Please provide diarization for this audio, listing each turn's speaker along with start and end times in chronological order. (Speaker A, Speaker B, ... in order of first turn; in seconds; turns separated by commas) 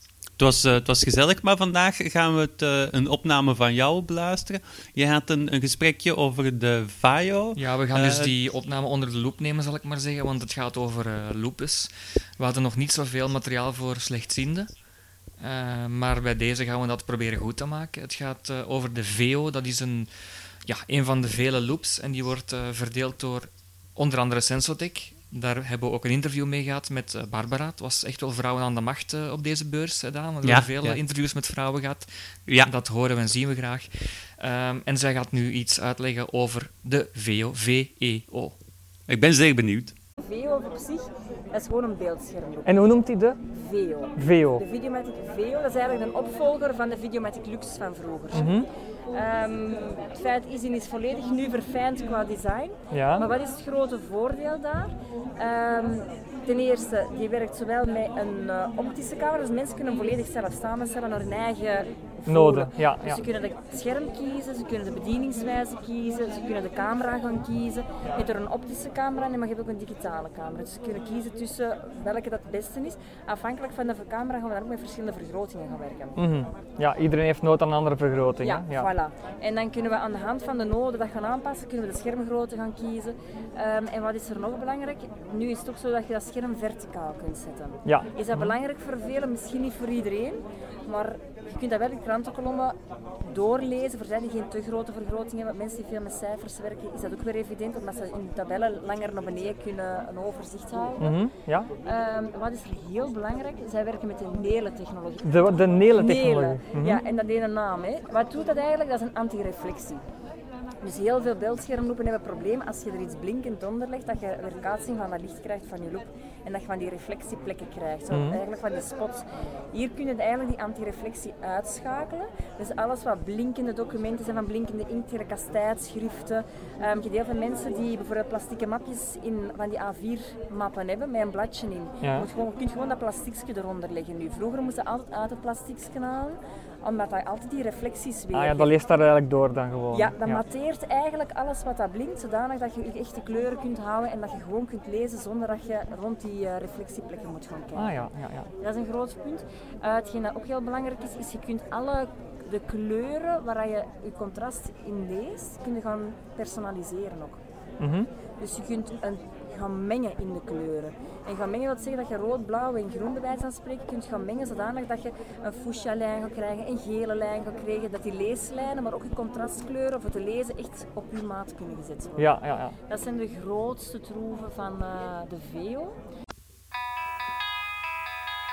Speaker A: 0.4-8.3, Speaker B: 7.6-14.7, Speaker B: 15.4-20.1, Speaker B: 20.6-32.1, Speaker A: 30.4-31.0, Speaker B: 32.6-38.5, Speaker A: 39.1-39.9, Speaker C: 40.2-76.2, Speaker D: 42.6-43.4, Speaker D: 44.2-44.6, Speaker D: 48.3-48.7, Speaker D: 52.9-53.3, Speaker D: 62.3-63.2, Speaker D: 76.2-78.9, Speaker C: 78.4-101.2, Speaker D: 87.8-88.1, Speaker D: 101.0-101.7, Speaker C: 101.8-110.0, Speaker D: 105.2-107.0, Speaker C: 110.8-138.8, Speaker D: 118.1-118.4, Speaker D: 138.3-140.3, Speaker C: 139.9-157.4, Speaker D: 147.8-148.5, Speaker D: 157.8-158.1, Speaker C: 158.4-176.0, Speaker D: 172.2-172.8